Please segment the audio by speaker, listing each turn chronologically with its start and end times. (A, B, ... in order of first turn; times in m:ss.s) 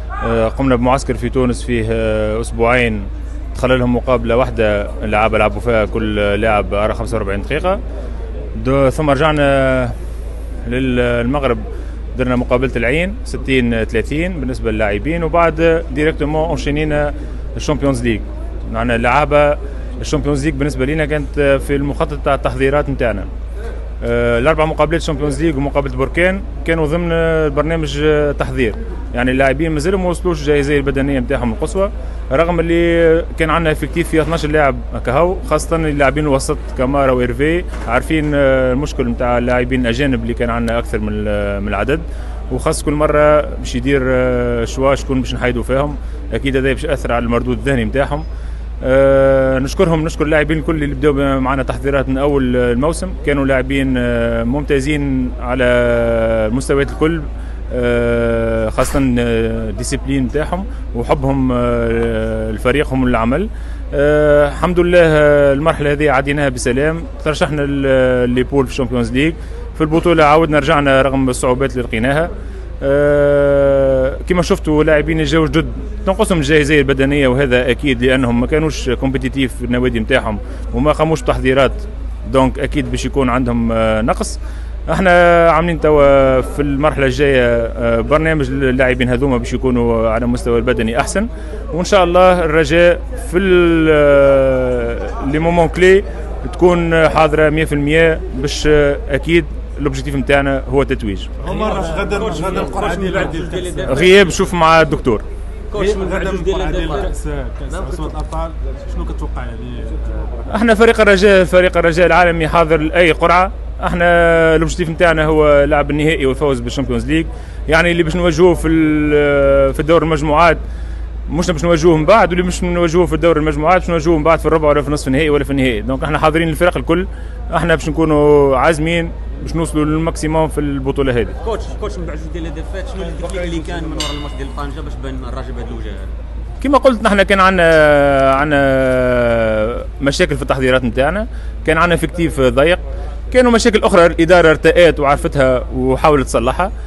0:00.2-0:07.8 A
0:08.6-0:09.9 A
0:10.6-0:11.6 A
0:12.1-0:23.3 A
0:24.0-0:48.2 A
0:48.8-1:41.3 A
1:41.4-1:44.1 B
1:41.5-1:44.4 C
1:43.9-1:45.2 A
1:45.7-1:47.1 C
1:45.7-1:50.3 B
1:50.5-2:00.6 A
2:01.3-2:11.4 A
2:11.4-2:16.1 C
2:16.6-2:26.7 A